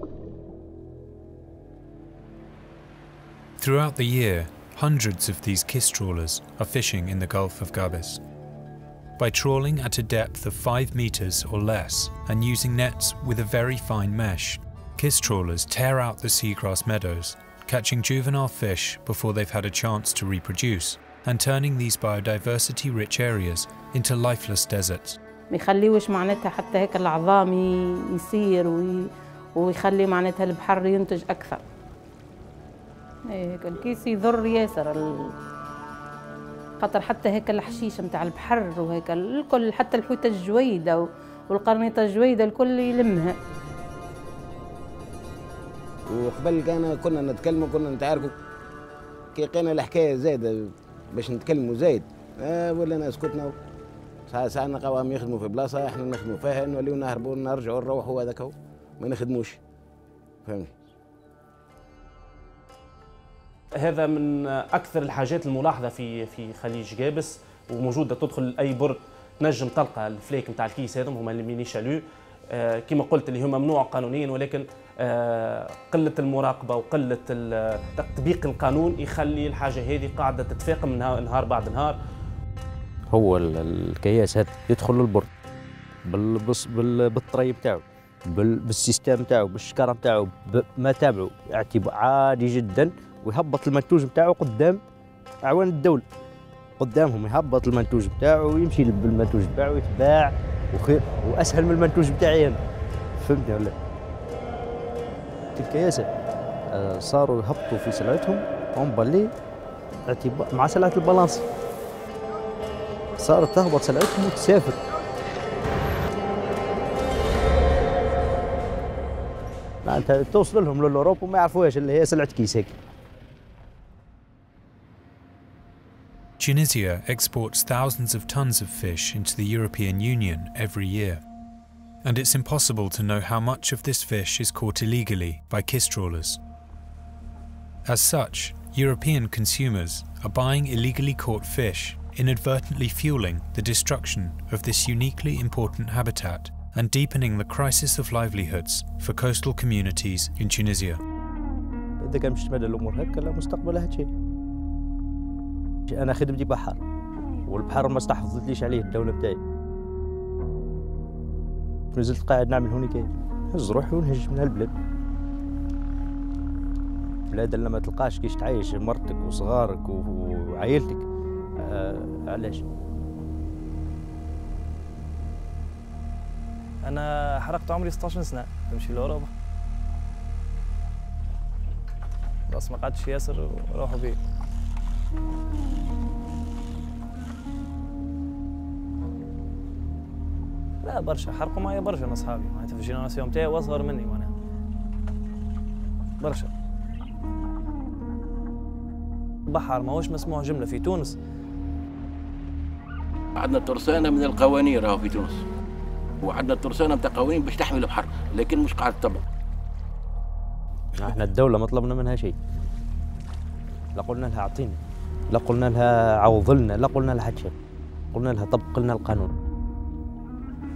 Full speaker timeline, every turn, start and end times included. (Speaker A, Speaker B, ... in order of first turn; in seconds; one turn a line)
Speaker A: 3.6-8.2
Speaker A: 9.2-25.2
Speaker B: 25.5-31.6
Speaker B: 33.3-35.3
Speaker B: 36.8-43.4
Speaker C: 46.1-48.3
Speaker C: 49.3-53.5
Speaker C: 54.3-59.6
Speaker C: 60.4-60.8
Speaker D: 63.8-82.0
Speaker E: 83.1-85.3
Speaker E: 86.1-94.8
Speaker E: 95.4-96.0
Speaker E: 96.8-102.6
Speaker E: 103.2-103.8
Speaker E: 105.6-106.1
Speaker E: 106.7-109.3
Speaker E: 110.1-111.5
Speaker E: 113.2-114.8
Speaker E: 119.8-122.7
Speaker A: 126.4-131.2
Speaker A: 132.0-136.4
Speaker A: 137.9-151.0
Speaker E: 152.0-154.1
Speaker E: 155.9-156.8
Speaker E: 157.5-159.4
Speaker E: 161.9-164.7
Speaker E: 167.3-171.1
Speaker E: 171.6-172.6
Speaker F: 176.8-179.3
Speaker F: 182.5-184.2
Speaker F: 190.8-194.3
Speaker F: 196.2-196.5
Speaker F: 199.5-201.2
Speaker G: 203.4-205.4
Speaker G: 206.3-209.2
Speaker E: 210.9-212.3
Speaker E: 213.9-214.8
Speaker E: 215.3-217.5
Speaker E: 218.1-219.3